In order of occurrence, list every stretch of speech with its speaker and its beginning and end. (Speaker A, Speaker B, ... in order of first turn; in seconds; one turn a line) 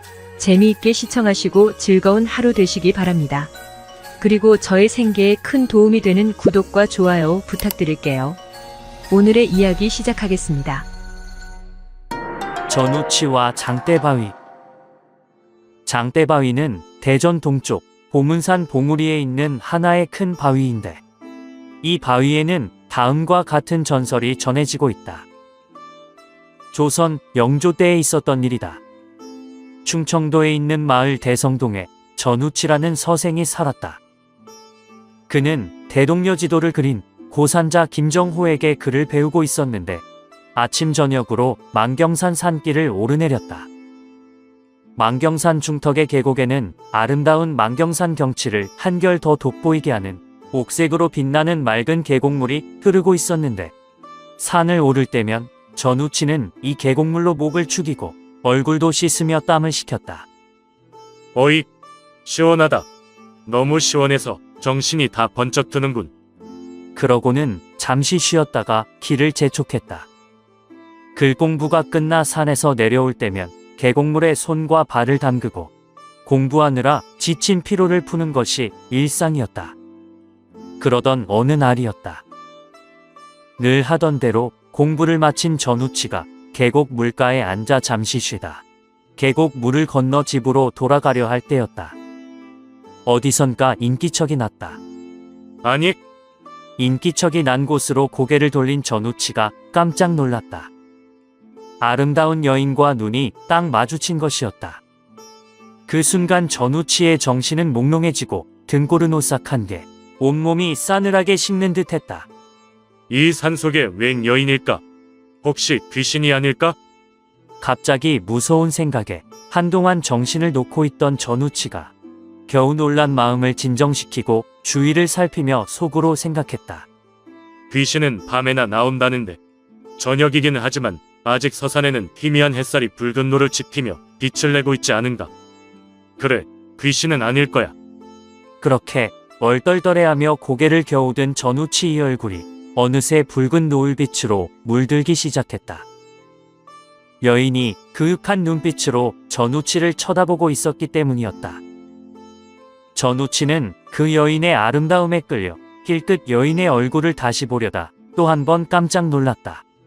Speaker A: 0.4-3.5
Speaker A: 4.2-8.4
Speaker A: 9.1-10.9
Speaker B: 12.7-14.3
Speaker B: 15.9-21.0
Speaker B: 21.8-25.3
Speaker B: 26.7-28.8
Speaker B: 29.9-34.0
Speaker B: 35.3-40.0
Speaker B: 40.5-43.7
Speaker B: 45.0-53.7
Speaker B: 54.4-60.3
Speaker C: 61.4-61.7
Speaker C: 62.2-62.9
Speaker C: 63.5-66.1
Speaker B: 67.0-70.1
Speaker B: 71.2-75.7
Speaker B: 76.3-79.8
Speaker B: 80.8-82.2
Speaker B: 83.6-88.6
Speaker B: 89.2-92.0
Speaker B: 93.1-94.8
Speaker C: 95.6-96.0
Speaker B: 96.8-100.7
Speaker B: 101.8-104.8
Speaker B: 105.9-112.3
Speaker C: 113.1-114.8
Speaker C: 115.4-116.8
Speaker B: 117.6-121.9
Speaker B: 122.5-126.9
Speaker C: 127.7-129.4
Speaker C: 130.0-135.3
Speaker C: 136.2-137.7
Speaker B: 138.6-145.8
Speaker B: 147.2-151.6
Speaker B: 152.9-159.6